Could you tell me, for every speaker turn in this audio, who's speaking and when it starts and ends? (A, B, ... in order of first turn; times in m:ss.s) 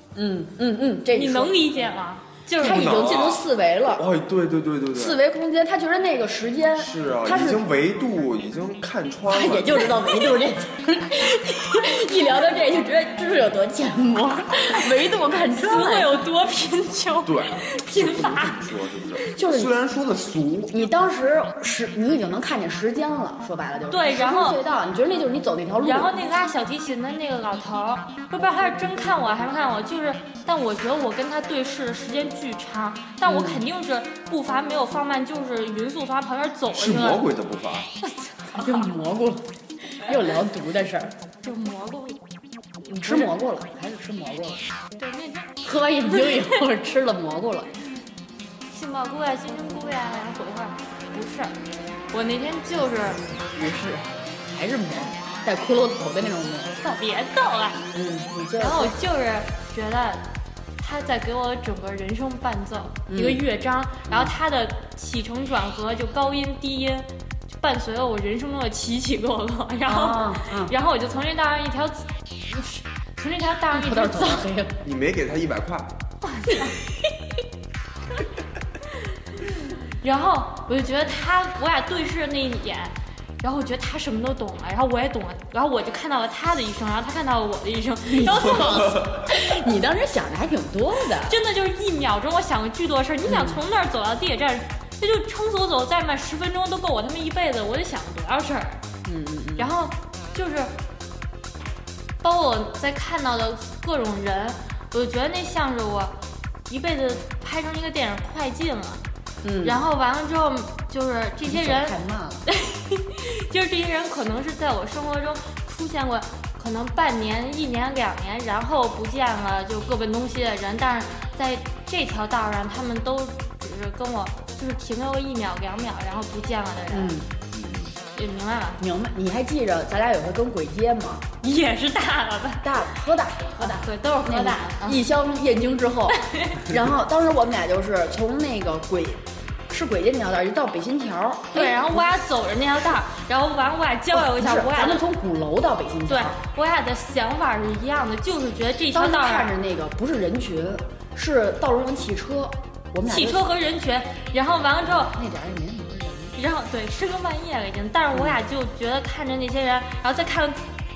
0:00.1-0:01.8 A
0:01.1-0:02.9 B
0:02.6-0:04.0 A
0:02.6-0:05.2 C
0:04.9-0:07.6 A
0:06.8-0:10.1 C
0:09.3-0:16.2 A
0:15.6-0:18.6 B
0:17.2-0:20.7 C
0:19.4-0:19.8 A
0:20.7-0:26.1 A
0:23.9-0:24.6 B
0:25.8-0:37.2 B
0:33.2-0:33.6 A
0:36.7-0:37.9 C
0:38.0-0:38.9 B
0:38.5-0:39.4 A
0:40.0-0:41.1 A
0:41.4-0:42.2 B
0:42.9-0:44.6 A
0:43.0-0:43.3 B
0:45.0-0:45.6 B
0:45.6-0:47.7 A
0:46.1-0:46.5 B
0:48.7-0:51.5 B
0:52.1-0:53.2 B
0:53.5-0:56.8 A
0:56.8-0:57.8 B
0:57.9-0:58.9 A
0:58.6-1:00.2 B
1:00.8-1:14.4 B
1:03.1-1:03.4 A
1:04.1-1:04.3 A
1:09.8-1:10.7 A
1:13.7-1:14.8 A
1:14.8-1:15.9 C
1:16.2-1:16.7 B
1:20.0-1:29.0 B
1:28.1-1:31.4 A
1:31.2-1:38.8 B
1:33.2-1:33.6 A
1:39.0-1:39.7 A
1:39.6-1:40.7 B
1:42.2-1:49.0 B
1:49.4-1:49.8 A
1:49.6-1:51.9 B
1:51.4-1:52.4 A
1:52.5-2:07.1 B
2:06.9-2:07.3 A
2:07.5-2:07.9 C
2:08.1-2:08.8 B
2:08.8-2:11.3 A
2:11.4-2:12.7 B
2:12.6-2:22.0 A
2:13.6-2:15.0 B
2:16.3-2:16.6 B
2:21.5-2:25.0 B
2:24.1-2:26.4 A
2:26.1-2:29.5 B
2:28.9-2:33.5 A
2:33.0-2:35.2 B
2:34.8-2:36.4 A
2:36.3-2:40.6 B
2:38.1-2:38.4 A